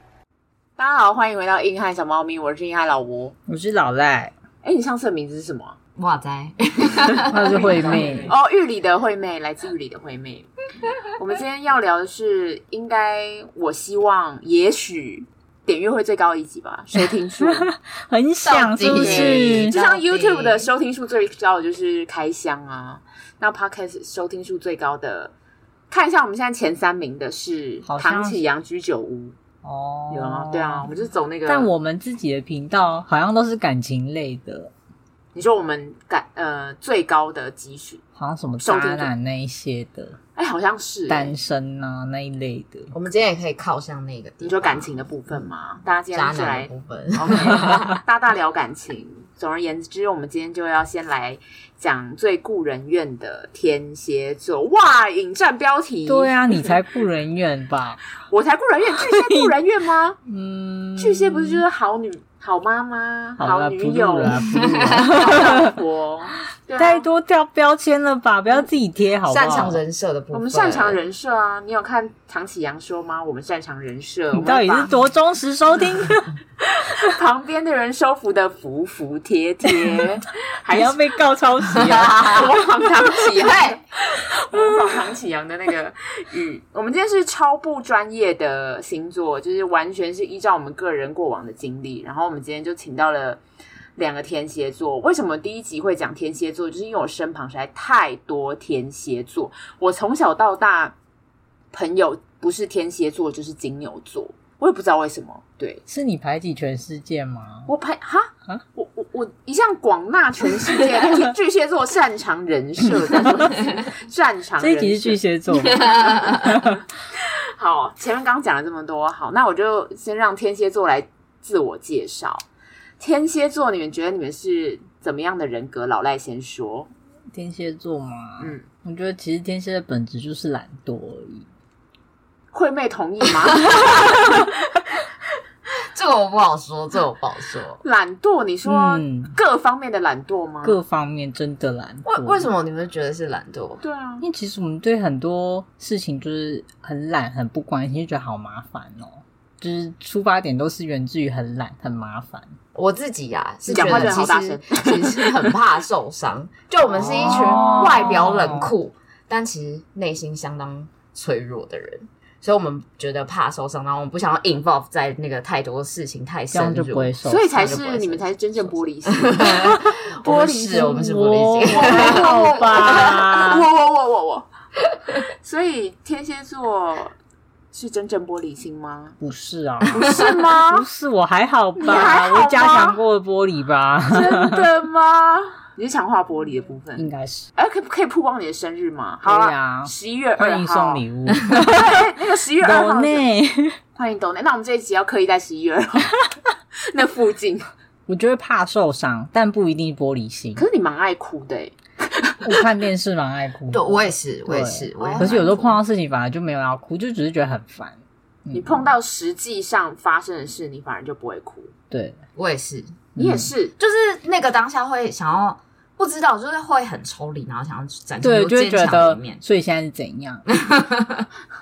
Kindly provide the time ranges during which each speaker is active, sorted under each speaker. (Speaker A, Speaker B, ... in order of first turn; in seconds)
Speaker A: 0.8-3.3, 4.6-5.8, 7.6-10.5, 11.1-17.7, 18.9-25.3, 25.9-29.4, 30.1-31.7, 35.3-38.0, 38.6-39.1, 40.4-41.3, 44.4-56.7, 58.3-60.2, 61.0-67.0, 70.3-74.9, 76.8-81.0, 82.2-93.4, 94.0-100.9, 101.7-105.8, 107.7-115.2, 117.6-122.4, 123.0-126.9, 128.4-128.6, 132.5-134.5, 137.8-140.8, 143.8-144.2, 153.6-155.4, 167.2-170.9, 171.7-174.5, 175.3-177.1, 177.7-179.2, 179.9-180.8, 181.8-183.0, 184.1-193.2, 193.9-196.1, 196.9-197.7, 200.6-202.6, 205.0-205.8, 208.5-211.7, 213.2-213.7
Speaker B: 3.5-4.3, 7.3-8.3, 17.4-19.7, 27.8-28.4, 29.6-30.9, 31.4-34.7, 38.1-40.2, 41.1-42.9, 56.0-58.0, 59.0-59.5, 60.2-61.6, 63.4-65.8, 66.8-69.8, 74.3-76.3, 79.7-80.0, 80.7-82.6, 105.9-107.7, 114.6-116.8, 127.3-131.5, 138.6-139.3, 140.6-142.5, 144.2-152.5, 153.7-154.2, 157.0-158.7, 166.5-167.7, 169.5-173.7, 179.2-184.6, 186.9-187.5, 189.2-192.1, 192.6-193.8, 198.1-200.6, 202.4-208.9, 211.9-212.2, 213.2-213.5, 218.2-220.4
Speaker C: 6.0-8.3, 18.4-20.7, 42.9-44.9, 46.1-48.0, 64.4-65.3, 69.2-71.0, 81.7-82.5, 83.3-83.8, 115.6-116.5, 133.7-134.2, 135.9-137.8, 142.0-143.8, 152.7-172.5, 180.0-180.3, 203.7-205.6, 212.3-213.1, 213.8-219.4, 220.5-221.2